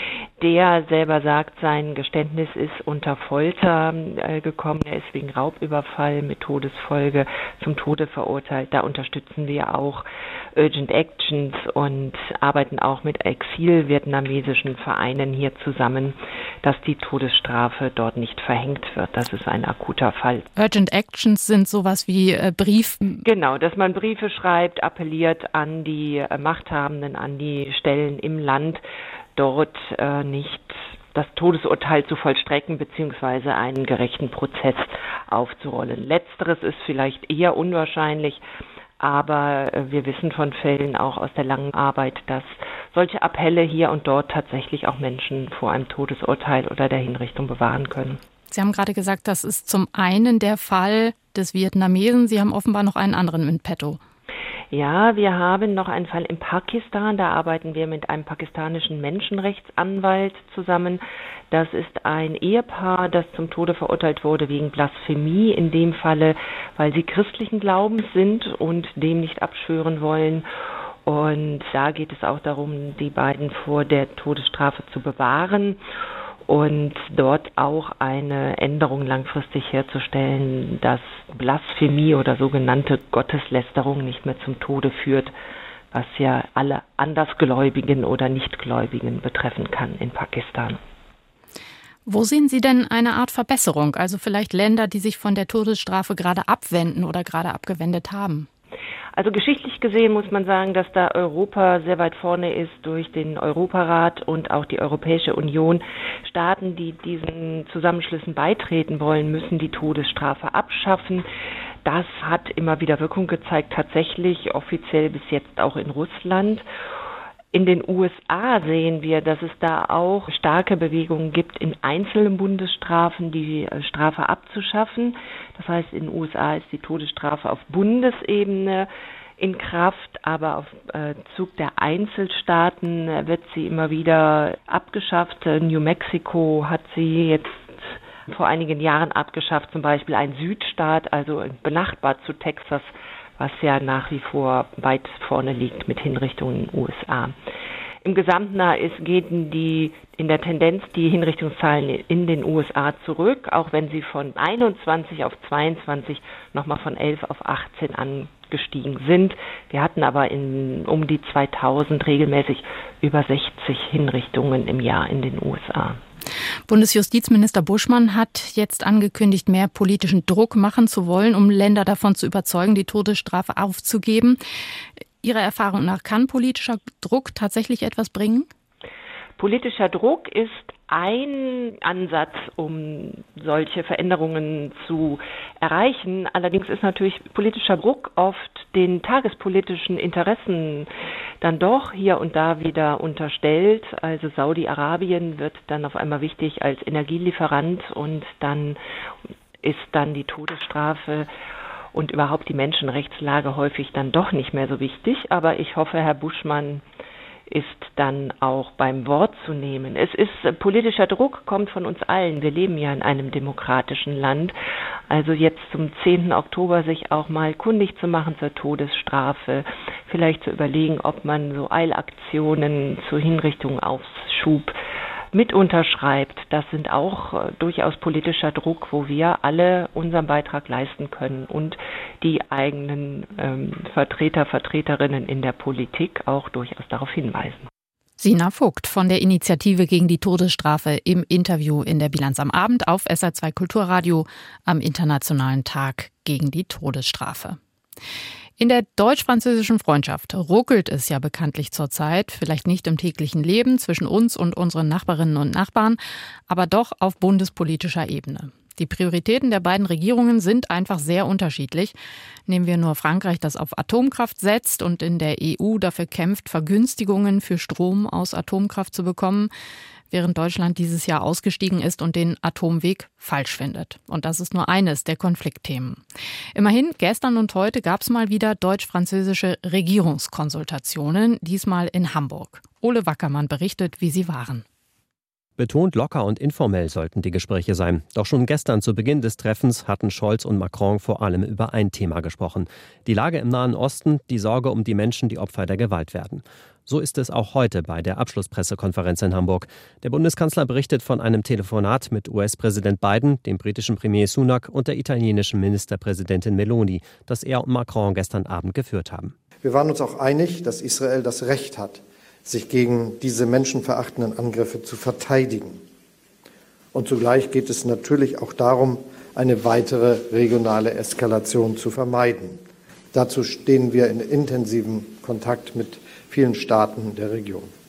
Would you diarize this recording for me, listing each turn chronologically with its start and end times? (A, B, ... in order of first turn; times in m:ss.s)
0:00.4-0:20.5 A
0:20.6-0:23.2 B
0:23.2-0:28.8 A
0:29.4-0:38.4 A
0:39.0-0:48.2 A
0:48.5-0:54.0 B
0:54.7-1:10.5 A
1:11.1-1:15.8 A
1:16.5-1:25.3 A
1:25.9-1:30.8 A
1:32.1-1:38.5 B
1:39.2-1:51.3 A
1:51.8-1:56.6 A
1:57.5-2:17.6 A
2:18.3-2:27.4 A
2:28.0-2:46.0 A
2:46.7-2:54.4 B
2:55.2-2:58.5 B
2:59.4-3:10.9 A
3:11.4-3:18.8 A
3:19.6-3:21.3 A
3:21.9-3:26.8 A
3:27.5-3:34.6 A
3:35.1-3:44.7 A
3:45.3-3:57.7 A
3:58.2-4:07.6 B
4:08.6-4:22.0 B
4:22.5-4:29.5 B
4:30.1-4:36.0 B
4:36.6-4:44.6 B
4:45.6-5:09.3 C
5:09.6-5:15.8 D
5:16.9-5:22.6 D
5:23.1-5:27.7 D